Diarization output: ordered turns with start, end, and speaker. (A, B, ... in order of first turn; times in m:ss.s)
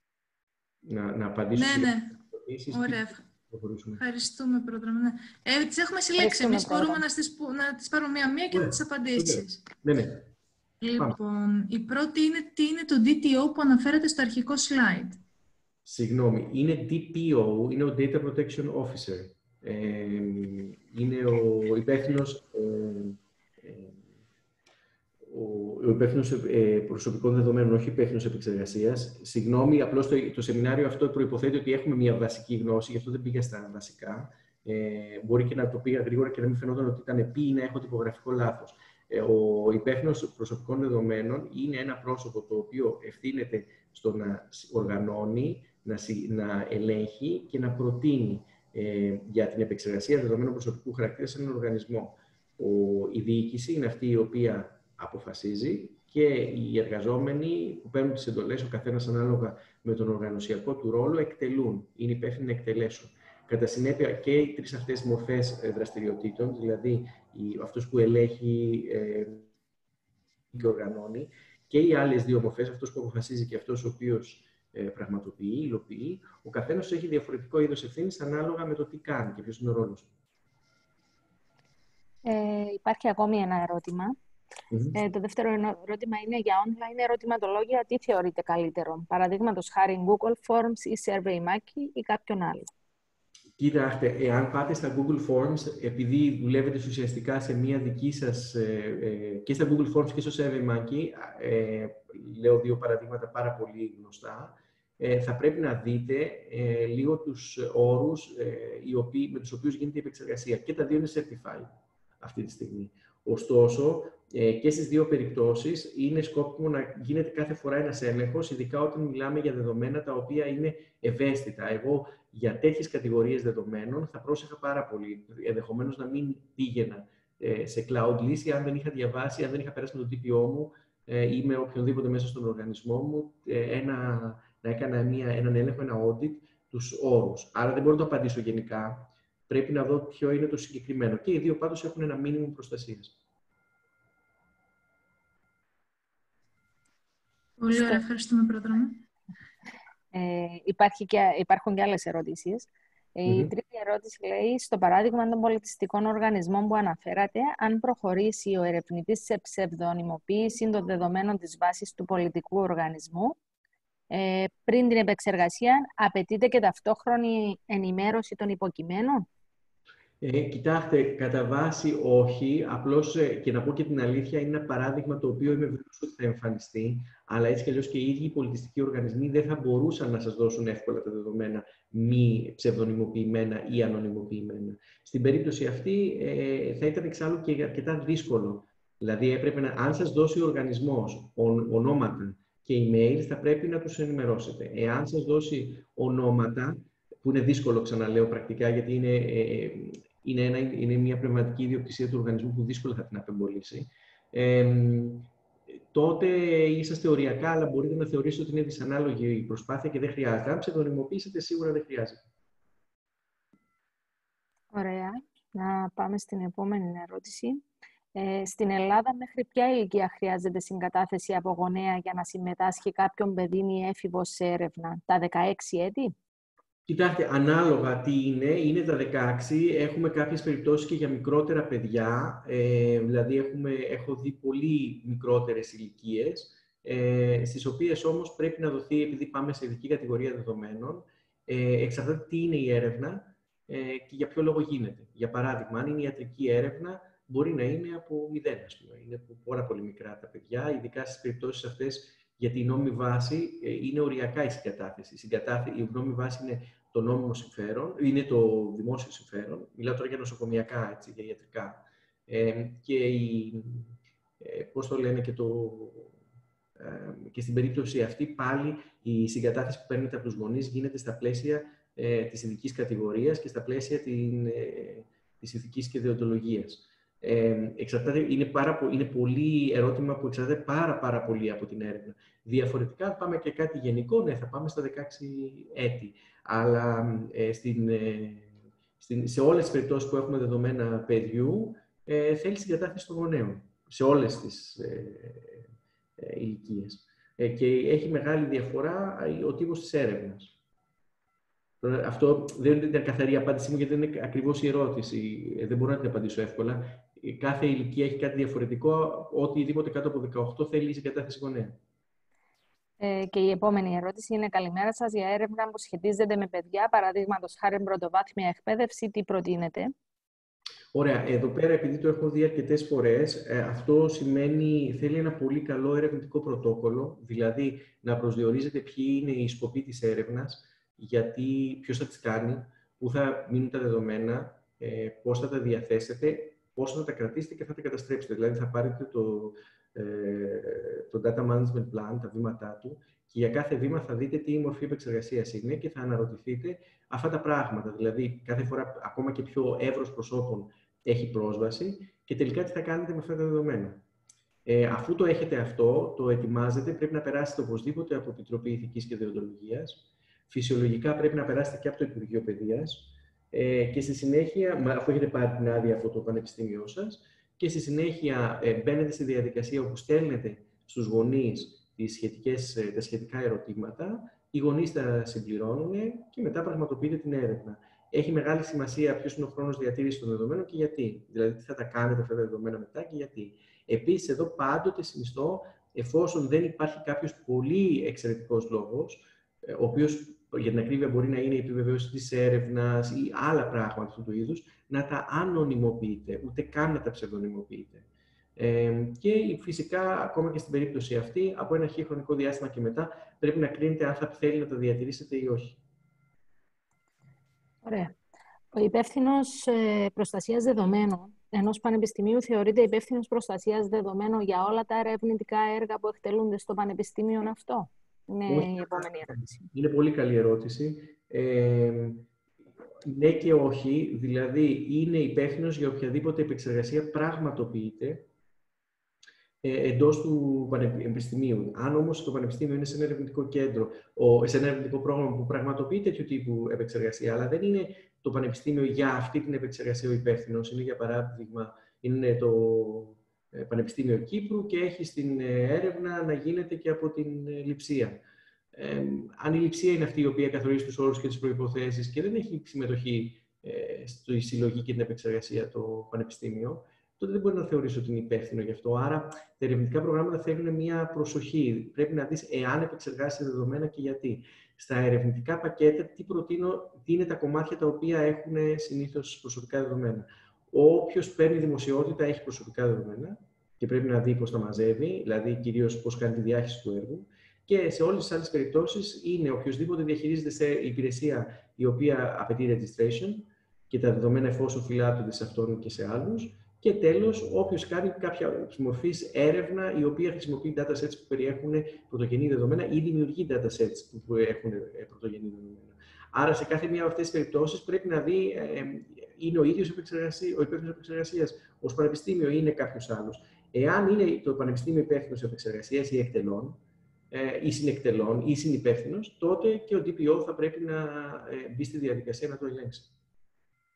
0:00.8-0:04.0 A
0:01.6-0:02.2 B
0:02.7-0:03.2 B
0:04.0-0:09.6 B
0:06.2-0:07.0 C
0:08.5-0:10.2 A
0:10.8-0:15.2 B
0:15.8-0:24.0 A
0:25.2-1:09.5 A
1:10.5-1:20.1 A
1:22.2-1:24.1 C
1:24.7-1:25.0 A
1:24.9-1:32.7 C
1:33.6-2:23.2 A
2:27.6-2:29.0 B
2:30.1-2:43.4 C
2:33.2-2:33.5 A
2:44.1-2:49.3 C
2:50.2-3:32.2 A
3:34.7-3:46.1 C
3:46.9-4:23.9 A
4:24.4-4:26.2 A
4:26.8-5:00.5 A
5:01.8-5:11.8 A
5:13.0-5:19.9 C
5:20.9-5:54.0 A
5:54.6-6:38.0 A
6:38.6-6:45.8 A
6:47.8-6:48.2 C
6:48.7-6:59.6 C
6:58.5-7:02.3 A
7:03.0-7:08.3 A
7:09.6-7:28.2 A
7:28.7-8:26.8 A
8:27.3-8:33.1 A